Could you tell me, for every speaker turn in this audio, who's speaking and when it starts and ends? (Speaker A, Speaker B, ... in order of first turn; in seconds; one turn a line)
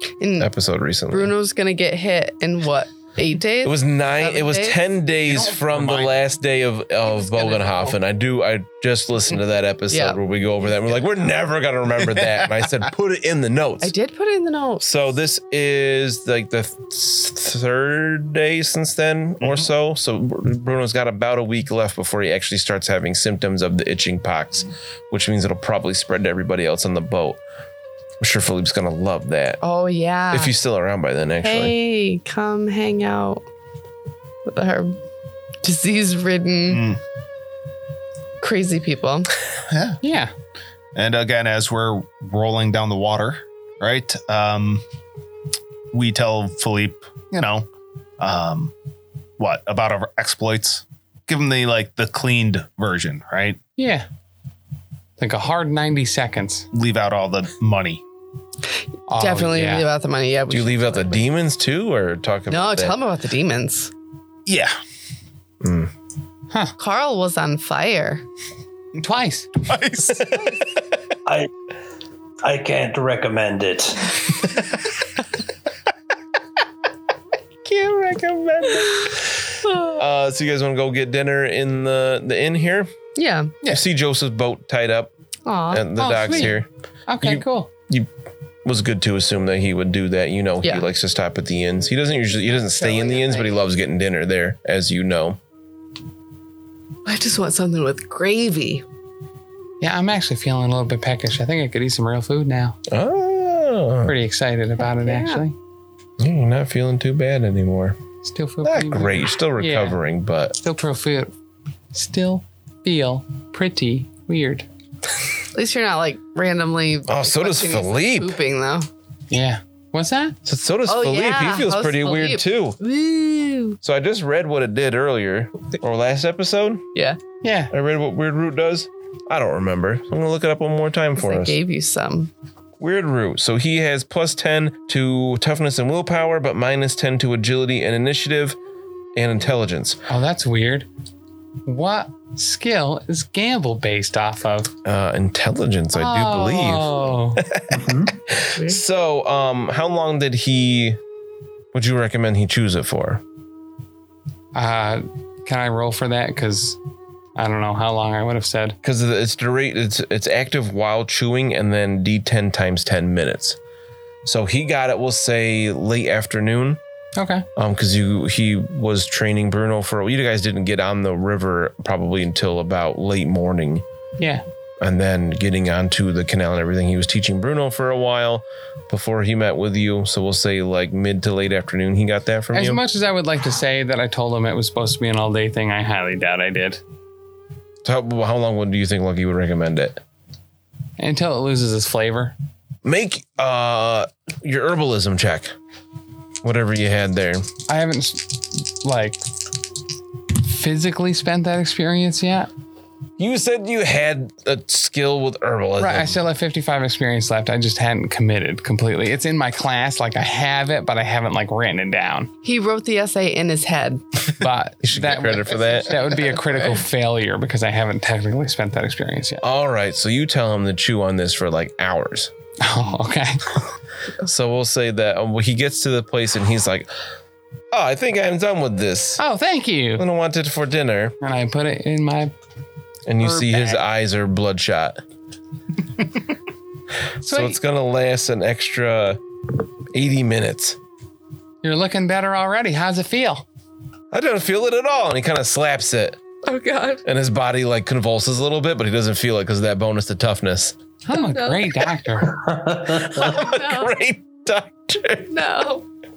Speaker A: 0.2-0.5
Speaker B: 0.4-1.3
Speaker A: 1.1-4.8
Speaker B: 3.6-13.9
Speaker C: 5.3-6.2
Speaker C: 7.3-7.8
Speaker A: 9.9-10.2
Speaker A: 13.8-14.8
Speaker B: 14.8-27.4
Speaker B: 28.2-29.6
Speaker A: 29.6-30.5
Speaker B: 30.3-31.7
Speaker A: 31.4-33.4
Speaker A: 34.5-35.0
Speaker A: 35.6-36.9
Speaker C: 36.7-37.0
Speaker A: 38.4-39.4
Speaker C: 39.7-40.0
Speaker D: 40.0-40.3
Speaker C: 41.0-44.8
Speaker C: 45.9-47.7
Speaker C: 48.2-48.7
Speaker C: 49.4-53.6
Speaker D: 53.8-54.1
Speaker D: 55.2-56.7
Speaker C: 56.7-58.0
Speaker D: 59.1-59.9
Speaker A: 59.1-61.2
Speaker B: 60.5-63.0
Speaker A: 62.5-63.9
Speaker C: 64.5-64.8
Speaker B: 65.6-65.9
Speaker A: 66.8-68.2
Speaker D: 69.0-69.5
Speaker C: 69.6-70.6
Speaker E: 72.4-74.3
Speaker B: 77.6-82.9
Speaker A: 79.7-80.0
Speaker A: 83.2-83.6
Speaker B: 83.7-85.1
Speaker A: 85.5-85.8
Speaker B: 85.7-86.7
Speaker D: 86.0-87.7
Speaker B: 87.2-88.1
Speaker B: 88.6-95.4
Speaker A: 92.5-93.6
Speaker A: 97.0-98.8
Speaker D: 99.8-102.8
Speaker B: 102.9-104.2
Speaker D: 104.0-105.6
Speaker A: 104.9-105.4
Speaker B: 106.2-108.0
Speaker D: 108.2-110.0
Speaker B: 108.6-110.6
Speaker D: 110.6-111.3
Speaker D: 111.9-114.7
Speaker A: 115.5-118.9
Speaker B: 117.1-118.4
Speaker D: 119.3-120.4
Speaker B: 120.5-122.8
Speaker A: 120.9-123.8
Speaker B: 123.8-126.9
Speaker D: 127.4-127.7
Speaker B: 127.7-131.6
Speaker A: 131.2-132.3
Speaker B: 132.8-138.6
Speaker B: 139.2-140.0
Speaker D: 140.1-140.9
Speaker D: 141.7-144.7
Speaker B: 144.8-151.0
Speaker D: 145.9-147.5
Speaker E: 147.8-148.1
Speaker B: 151.7-153.2
Speaker D: 154.5-156.8
Speaker D: 157.4-158.8
Speaker B: 158.8-163.6
Speaker B: 164.2-166.8
Speaker D: 167.2-167.5
Speaker B: 167.6-173.8
Speaker D: 174.2-174.4
Speaker B: 174.8-182.8
Speaker D: 182.5-186.8
Speaker B: 187.8-190.0
Speaker D: 191.0-192.3
Speaker B: 192.8-195.5
Speaker B: 196.4-197.5
Speaker D: 197.7-199.2
Speaker D: 200.4-202.5
Speaker B: 203.2-206.2
Speaker D: 205.8-212.3
Speaker A: 212.4-214.0
Speaker D: 214.4-219.4
Speaker B: 214.8-216.2
Speaker A: 215.6-216.8
Speaker B: 219.4-222.3
Speaker D: 222.6-223.6
Speaker B: 224.2-226.9
Speaker B: 227.7-229.2
Speaker D: 229.2-230.1
Speaker B: 230.0-231.2
Speaker D: 231.2-232.3
Speaker B: 233.1-235.0
Speaker D: 233.2-233.8
Speaker D: 237.2-237.6
Speaker B: 237.2-239.2
Speaker B: 239.9-240.8
Speaker D: 241.6-243.4
Speaker B: 244.1-246.2
Speaker A: 246.4-247.0
Speaker B: 247.1-250.8
Speaker D: 251.1-252.4
Speaker A: 251.1-251.7
Speaker E: 252.3-253.2
Speaker B: 253.1-255.3
Speaker A: 253.2-253.9
Speaker A: 255.3-255.9